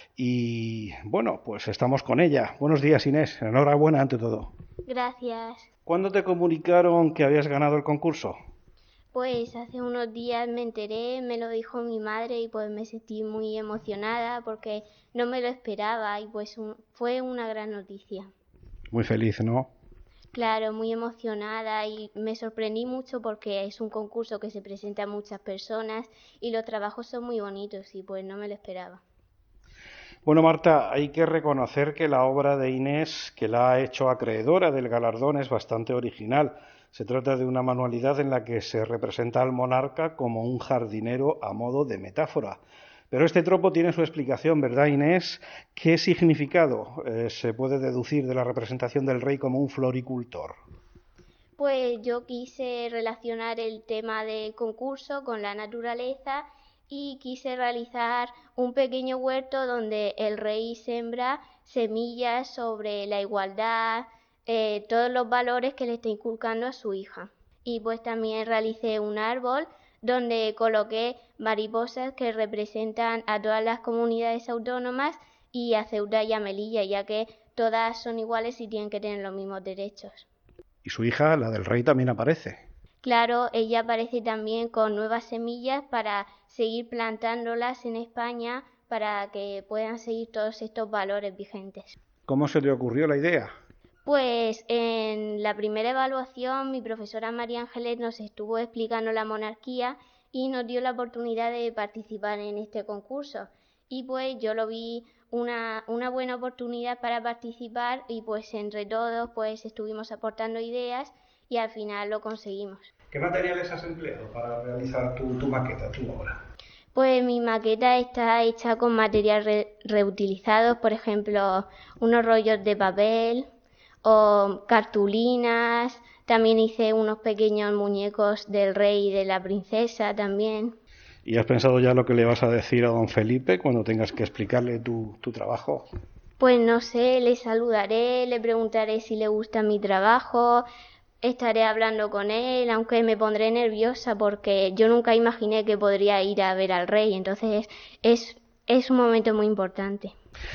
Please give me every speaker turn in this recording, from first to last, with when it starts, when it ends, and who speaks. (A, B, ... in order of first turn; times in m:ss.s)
0:00.2-0:04.5 A
0:04.9-0:05.7 B
0:05.8-0:08.3 A
0:09.1-0:18.3 B
0:18.9-0:19.7 A
0:20.3-0:29.0 B
0:30.2-0:50.5 A
0:51.6-1:20.2 B
1:20.8-1:22.6 A
1:23.0-1:31.9 B
1:32.3-1:33.5 A
1:34.0-1:52.9 B
1:53.1-1:56.4 A
1:56.9-2:03.5 B
2:04.0-2:10.7 B
2:11.2-2:15.8 A
2:16.4-2:20.6 B
2:21.2-2:30.1 B